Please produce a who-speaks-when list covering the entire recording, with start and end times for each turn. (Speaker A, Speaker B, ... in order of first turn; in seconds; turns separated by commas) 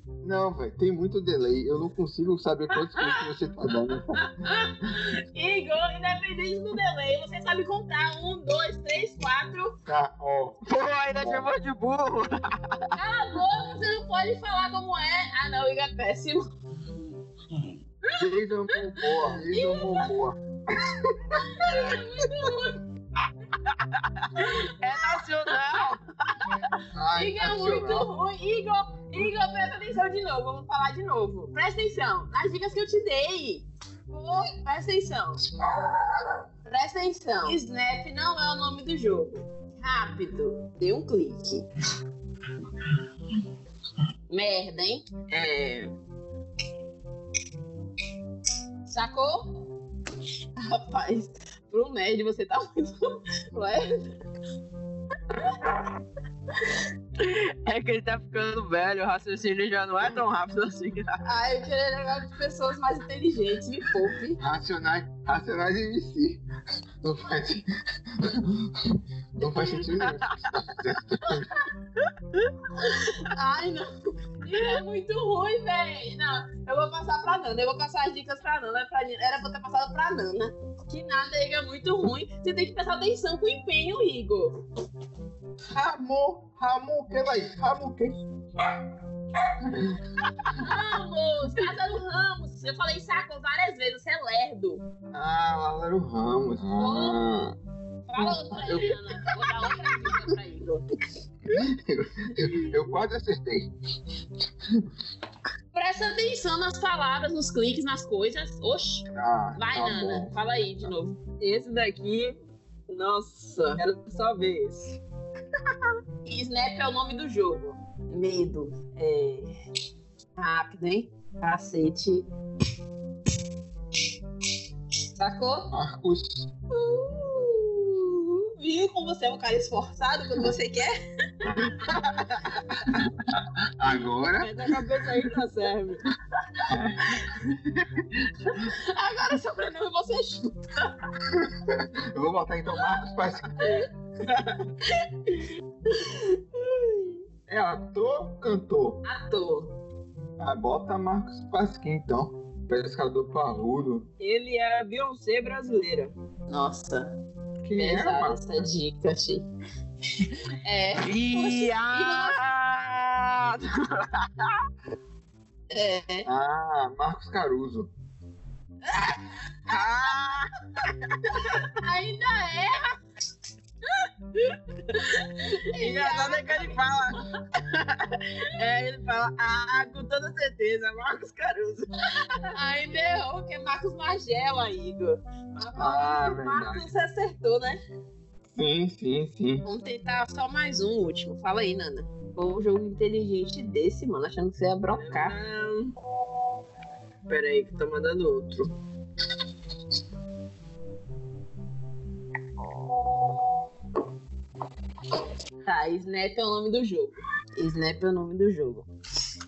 Speaker A: 0.2-4.5, Speaker B: 2.7-3.3, Speaker B: 4.1-9.8, Speaker A: 9.8-11.5, Speaker C: 10.7-13.0, Speaker B: 12.9-16.5, Speaker B: 18.1-20.1, Speaker A: 18.1-22.0, Speaker B: 21.4-22.8, Speaker C: 24.3-26.4, Speaker B: 24.4-24.6, Speaker B: 25.1-25.8, Speaker A: 26.8-28.1, Speaker B: 27.1-35.4, Speaker A: 35.7-36.0, Speaker B: 36.7-41.6, Speaker B: 44.3-45.1, Speaker C: 45.3-45.9, Speaker B: 48.9-49.6, Speaker B: 50.6-54.1, Speaker B: 55.3-55.6, Speaker C: 57.2-61.2, Speaker B: 61.2-64.4, Speaker A: 64.3-66.4, Speaker A: 67.0-67.7, Speaker A: 68.2-71.6, Speaker B: 71.3-71.6, Speaker B: 72.8-84.6, Speaker A: 85.7-88.2, Speaker A: 89.6-90.8, Speaker B: 90.5-94.8, Speaker A: 95.1-97.5, Speaker B: 96.8-97.2, Speaker B: 98.1-100.9, Speaker A: 98.2-100.3, Speaker A: 101.5-103.7, Speaker B: 105.7-111.2, Speaker A: 109.1-110.9, Speaker C: 111.4-112.4, Speaker C: 112.9-115.0, Speaker B: 113.5-113.8, Speaker B: 116.2-119.5, Speaker B: 120.4-122.2, Speaker B: 125.2-125.7, Speaker A: 125.7-126.5, Speaker B: 126.7-131.7, Speaker A: 131.5-133.1, Speaker A: 133.8-134.8, Speaker C: 134.4-136.0, Speaker A: 136.7-138.6, Speaker B: 137.1-137.3, Speaker B: 138.5-140.9, Speaker A: 141.3-143.9, Speaker B: 143.6-143.9, Speaker B: 144.9-147.1, Speaker A: 147.5-149.0, Speaker B: 149.0-149.7, Speaker A: 150.4-154.1, Speaker C: 154.2-156.1, Speaker B: 156.5-157.1, Speaker A: 157.6-158.7, Speaker B: 157.8-159.4, Speaker B: 160.1-162.4, Speaker C: 161.0-164.5, Speaker B: 165.7-166.3, Speaker A: 166.2-167.9, Speaker B: 168.8-170.1, Speaker C: 169.7-170.5, Speaker B: 171.4-172.9, Speaker B: 173.9-177.2, Speaker C: 175.8-181.9, Speaker B: 182.5-187.8, Speaker A: 185.7-186.9, Speaker A: 188.5-189.6, Speaker B: 189.6-195.3, Speaker C: 194.9-195.9, Speaker C: 197.3-198.7, Speaker B: 205.6-208.9